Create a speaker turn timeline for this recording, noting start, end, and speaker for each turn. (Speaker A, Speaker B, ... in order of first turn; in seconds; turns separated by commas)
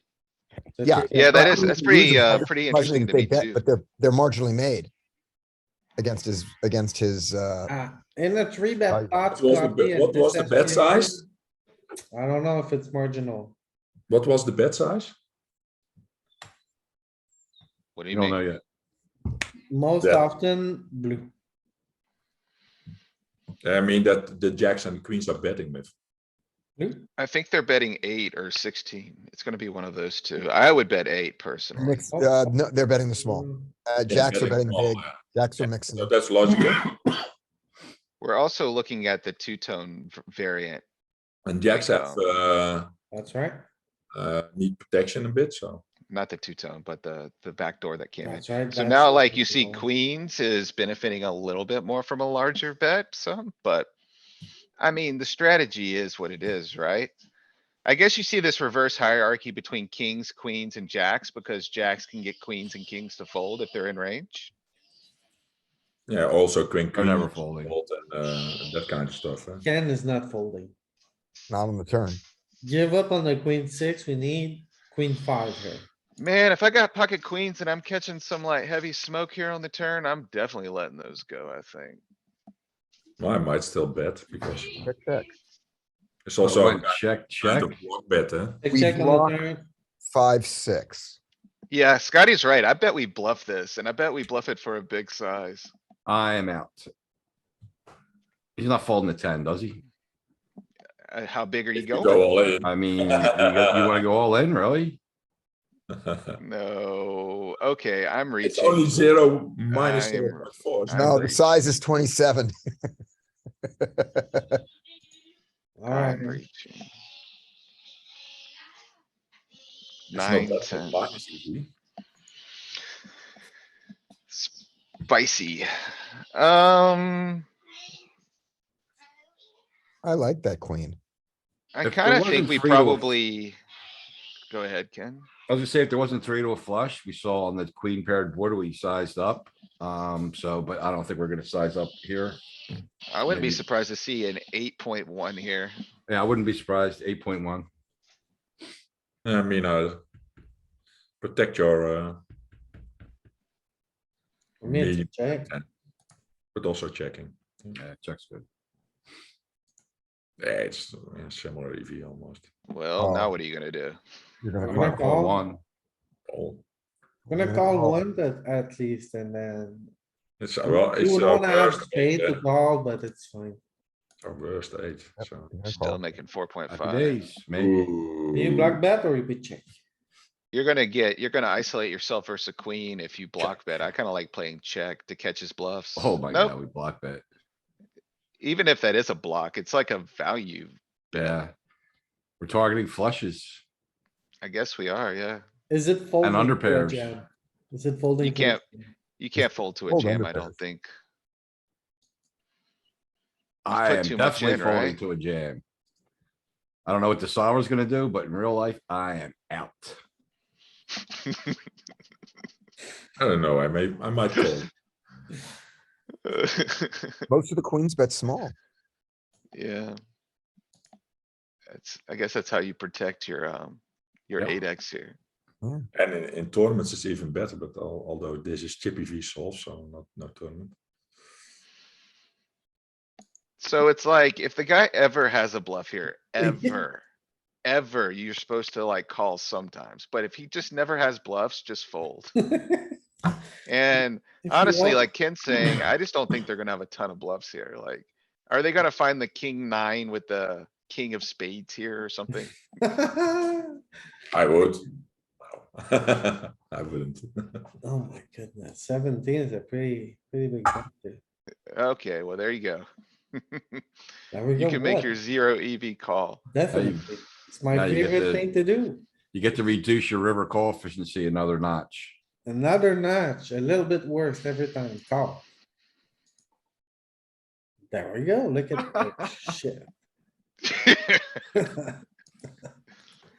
Speaker A: 0.7-1.8, Speaker B: 0.8-4.9, Speaker C: 1.1-3.6, Speaker B: 6.0-7.7, Speaker A: 7.7-11.2, Speaker B: 8.9-9.2, Speaker D: 9.3-11.2, Speaker A: 12.1-13.5, Speaker D: 14.1-15.1, Speaker C: 17.9-18.4, Speaker E: 18.1-18.6, Speaker A: 19.7-21.3, Speaker D: 20.0-20.2, Speaker D: 23.6-25.9, Speaker A: 26.8-27.1, Speaker C: 27.2-32.1, Speaker B: 31.7-36.1, Speaker A: 32.1-32.5, Speaker A: 33.2-33.7, Speaker D: 34.1-36.9, Speaker C: 38.2-40.8, Speaker D: 41.5-42.9, Speaker C: 41.6-42.2, Speaker A: 43.1-43.6, Speaker D: 44.1-45.8, Speaker C: 46.1-53.9, Speaker A: 48.2-49.9, Speaker C: 54.8-57.1, Speaker C: 57.8-64.5, Speaker D: 66.1-69.6, Speaker E: 66.9-67.7, Speaker A: 69.6-70.7, Speaker B: 71.5-72.2, Speaker A: 72.6-75.9, Speaker C: 76.2-82.0, Speaker D: 83.2-84.8, Speaker B: 84.8-85.3, Speaker D: 86.2-88.6, Speaker E: 86.4-87.7, Speaker A: 88.6-89.7, Speaker B: 88.7-89.4, Speaker B: 90.0-91.2, Speaker C: 91.7-95.7, Speaker E: 96.0-96.9, Speaker E: 98.5-99.8, Speaker C: 101.1-102.2, Speaker D: 101.7-104.0, Speaker E: 102.6-105.0, Speaker D: 105.9-106.4, Speaker C: 106.4-109.0, Speaker D: 108.4-111.3, Speaker C: 109.7-111.4, Speaker B: 110.9-112.5, Speaker B: 113.8-114.6, Speaker A: 115.8-116.4, Speaker C: 115.9-116.9, Speaker C: 120.1-121.1, Speaker D: 120.1-121.7, Speaker C: 125.0-125.7, Speaker C: 126.3-127.4, Speaker B: 130.0-131.0, Speaker C: 131.7-133.6, Speaker E: 131.8-133.1, Speaker C: 134.5-135.3, Speaker E: 135.5-142.4, Speaker C: 143.1-145.8, Speaker E: 143.2-143.6, Speaker E: 146.1-147.7, Speaker D: 149.2-150.0, Speaker D: 151.2-152.2, Speaker A: 154.6-155.5, Speaker D: 154.6-155.6, Speaker D: 156.5-157.8, Speaker E: 157.7-158.4, Speaker D: 160.4-162.4, Speaker C: 162.7-164.0, Speaker B: 163.0-163.3, Speaker B: 164.4-165.2, Speaker A: 164.7-165.5, Speaker E: 164.7-165.6, Speaker D: 166.3-166.6, Speaker A: 167.3-169.9, Speaker B: 167.3-168.0, Speaker D: 170.4-172.4, Speaker A: 170.6-173.6, Speaker D: 174.2-175.5, Speaker B: 175.5-176.0, Speaker C: 175.7-177.2, Speaker E: 176.7-177.8, Speaker D: 177.5-178.8, Speaker A: 178.3-179.7, Speaker C: 180.5-186.5, Speaker E: 185.9-187.2, Speaker C: 188.4-191.4, Speaker E: 191.1-191.5, Speaker E: 192.4-193.6, Speaker C: 194.4-195.4, Speaker A: 195.7-198.9, Speaker E: 196.2-197.2, Speaker C: 198.2-198.6, Speaker C: 199.2-200.9, Speaker B: 199.4-200.5, Speaker E: 203.6-205.6, Speaker C: 203.7-205.0, Speaker E: 206.8-210.0, Speaker D: 213.2-214.7, Speaker C: 216.2-217.2, Speaker B: 217.3-218.5, Speaker C: 219.5-219.9, Speaker C: 221.7-225.2, Speaker D: 225.9-230.7, Speaker C: 233.6-237.0, Speaker A: 236.4-236.8, Speaker C: 237.6-242.3, Speaker A: 242.4-242.9, Speaker C: 243.7-252.5, Speaker A: 244.4-245.8, Speaker A: 252.8-253.8, Speaker D: 254.3-254.8, Speaker D: 255.5-257.6, Speaker A: 257.8-261.2, Speaker C: 261.7-263.8, Speaker A: 264.3-265.1, Speaker C: 264.6-266.4, Speaker A: 266.5-269.0, Speaker E: 266.7-267.1, Speaker E: 267.7-268.4, Speaker E: 269.3-272.1, Speaker A: 272.4-275.4, Speaker A: 277.9-279.9, Speaker C: 280.7-281.4, Speaker A: 281.5-281.9